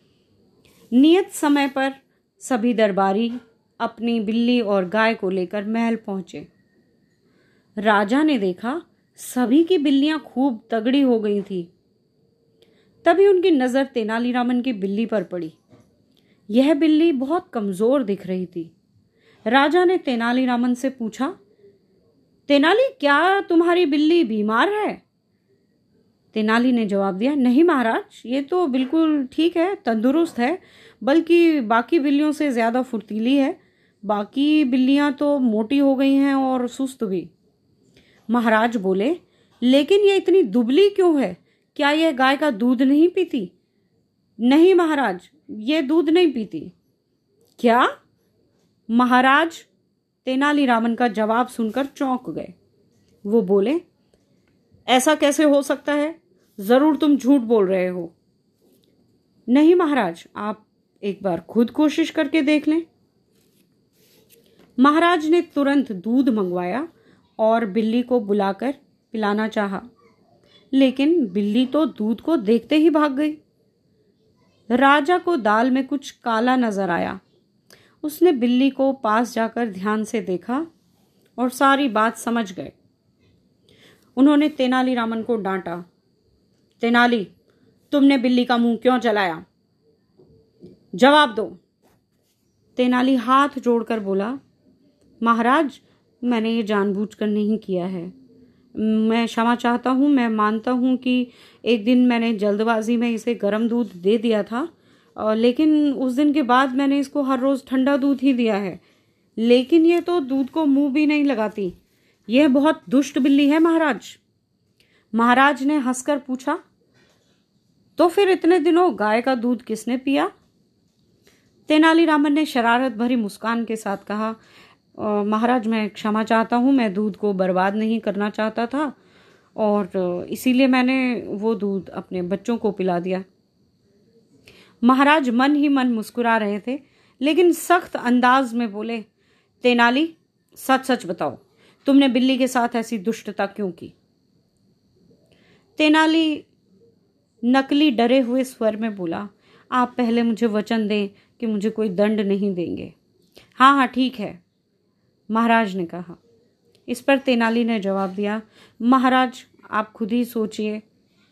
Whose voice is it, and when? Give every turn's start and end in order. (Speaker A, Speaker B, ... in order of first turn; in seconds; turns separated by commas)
Speaker A: 0.9-6.5, Speaker A: 7.8-11.7, Speaker A: 13.0-15.6, Speaker A: 16.5-18.7, Speaker A: 19.5-21.3, Speaker A: 22.5-25.0, Speaker A: 26.3-37.3, Speaker A: 38.3-43.5, Speaker A: 44.4-46.7, Speaker A: 47.6-47.9, Speaker A: 48.9-49.7, Speaker A: 50.2-52.5, Speaker A: 53.2-53.8, Speaker A: 54.9-58.1, Speaker A: 59.5-62.8, Speaker A: 64.8-66.9, Speaker A: 67.4-69.8, Speaker A: 70.7-73.4, Speaker A: 74.7-77.2, Speaker A: 78.0-80.7, Speaker A: 81.4-82.7, Speaker A: 84.2-85.8, Speaker A: 86.8-87.3, Speaker A: 87.9-89.4, Speaker A: 90.9-91.6, Speaker A: 92.8-94.4, Speaker A: 95.2-98.1, Speaker A: 98.8-108.8, Speaker A: 109.4-111.7, Speaker A: 112.3-114.2, Speaker A: 115.1-116.6, Speaker A: 118.0-120.3, Speaker A: 121.7-124.4, Speaker A: 125.0-128.9, Speaker A: 129.6-133.2, Speaker A: 134.8-139.1, Speaker A: 139.6-143.9, Speaker A: 145.8-146.5, Speaker A: 147.4-152.9, Speaker A: 153.6-154.4, Speaker A: 155.3-156.2, Speaker A: 156.9-160.8